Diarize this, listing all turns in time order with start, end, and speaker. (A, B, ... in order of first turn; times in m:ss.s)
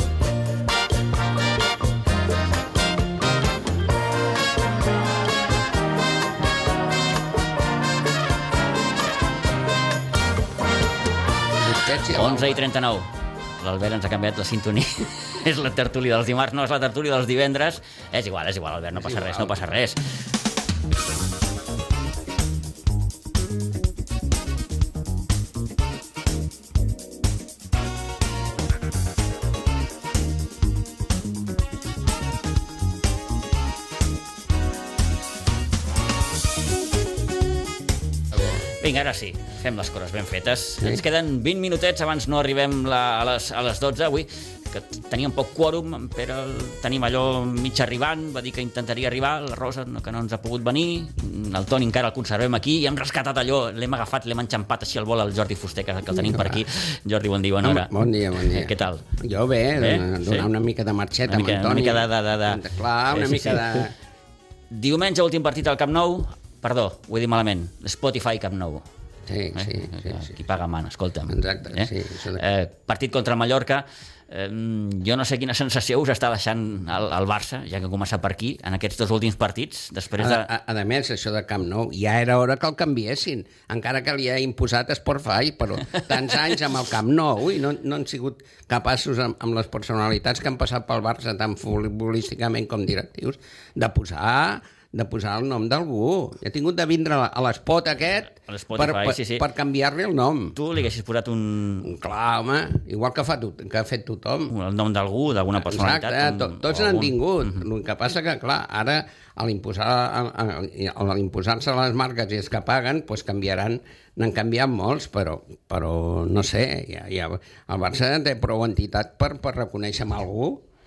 0:11.6-0:12.6 A
0:12.1-0:20.0 B
0:18.9-0:19.6 A
0:38.8-0:59.0 B
0:56.1-0:56.6 A
0:57.6-1:03.9 A
0:59.8-1:00.5 B
1:01.2-1:03.8 B
1:04.7-1:08.8 B
1:09.3-1:10.3 A
1:09.5-1:20.5 B
1:11.3-1:12.4 A
1:20.2-1:40.6 A
1:38.3-1:39.5 B
1:40.6-1:41.9 B
1:41.8-1:44.5 A
1:44.5-1:47.6 B
1:45.6-2:00.6 A